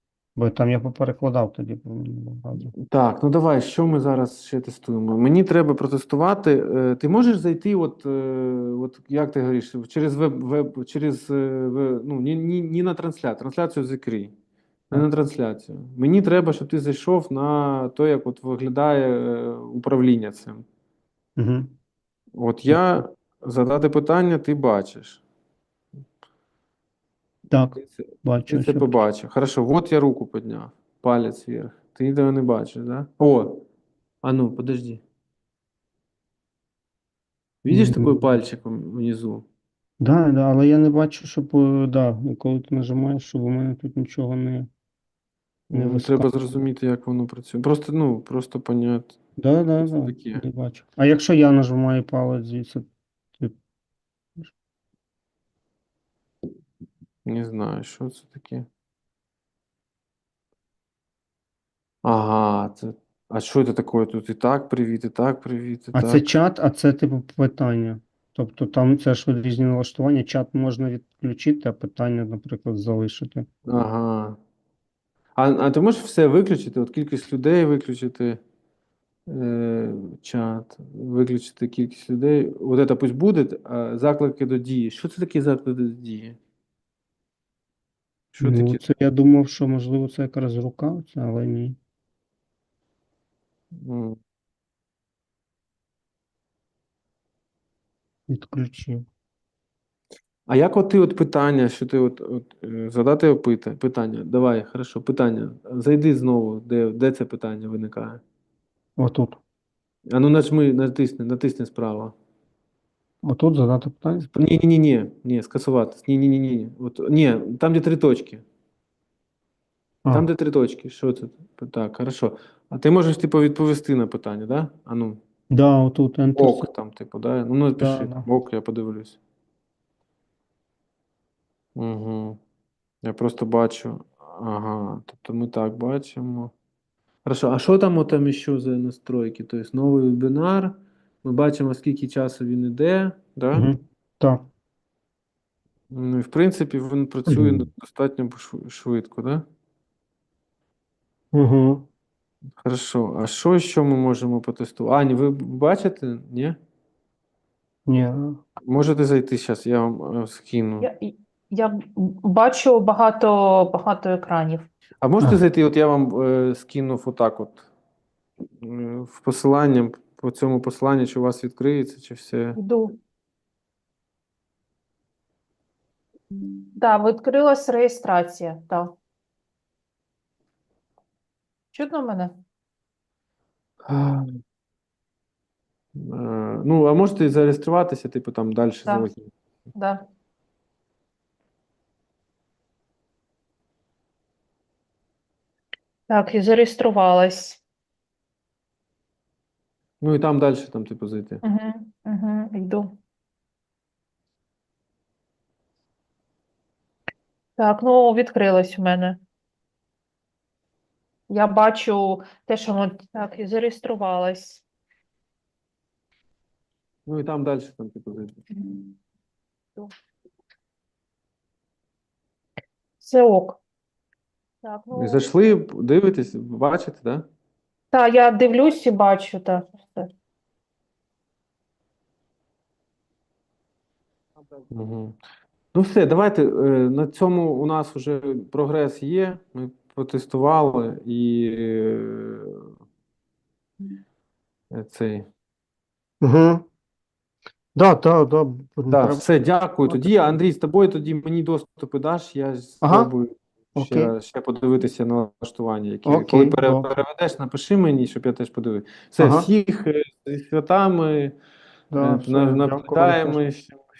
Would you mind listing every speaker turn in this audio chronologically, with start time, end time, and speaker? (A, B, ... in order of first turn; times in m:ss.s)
0:00.4-0:02.7 A
0:02.7-0:14.3 B
0:14.9-0:20.6 B
0:21.4-0:21.7 A
0:22.4-0:25.2 B
0:27.5-0:29.0 A
0:27.8-0:33.6 B
0:34.2-0:35.0 B
0:37.6-0:39.4 B
0:37.7-0:38.3 A
0:40.0-0:44.7 A
0:45.7-0:49.2 B
0:45.7-0:46.3 A
0:49.4-0:53.6 A
0:49.8-0:50.4 B
0:57.2-0:58.6 B
1:02.0-1:06.2 B
1:05.9-1:13.5 A
1:13.6-1:14.4 B
1:15.4-1:18.4 B
1:19.3-1:26.4 B
1:28.3-1:28.8 B
1:28.4-1:31.8 A
1:33.8-1:34.2 B
1:38.3-1:39.0 A
1:40.5-1:48.2 B
1:49.0-1:49.4 A
1:50.1-1:52.1 B
1:53.2-1:54.3 A
1:54.3-1:58.4 B
2:00.1-2:05.2 B
2:05.5-2:06.7 A
2:06.4-2:09.2 B
2:07.8-2:08.3 A
2:11.8-2:12.4 B
2:13.0-2:16.5 B
2:17.2-2:23.7 B
2:23.5-2:24.5 A
2:25.9-2:29.4 B
2:27.3-2:27.6 A
2:31.3-2:31.8 A
2:32.6-2:36.6 B
2:37.8-2:38.4 A
2:38.6-2:40.9 B
2:40.8-2:44.7 C
2:45.0-2:47.7 B
2:48.6-2:52.6 B
2:52.6-2:53.0 C
2:56.7-2:58.9 C
3:01.7-3:02.4 C
3:03.8-3:04.4 B
3:06.0-3:09.3 B
3:09.7-3:10.0 C
3:16.1-3:17.6 C
3:20.0-3:21.4 B
3:21.4-3:22.9 C
3:27.6-3:29.2 C
3:31.3-3:34.6 C
3:37.0-3:38.4 B
3:38.6-3:38.9 C
3:43.0-3:43.6 C
3:44.6-3:45.3 C
3:44.9-3:47.2 B
3:47.9-3:50.1 C
3:54.7-3:55.2 B
3:55.7-4:02.7 B
4:04.7-4:05.3 B
4:06.2-4:06.6 A
4:07.7-4:09.2 A
4:08.9-4:21.4 B
4:09.9-4:10.1 A
4:12.8-4:13.1 A
4:13.7-4:14.1 A
4:16.0-4:16.9 A
4:19.2-4:19.5 A
4:21.9-4:23.4 A
4:22.0-4:23.8 B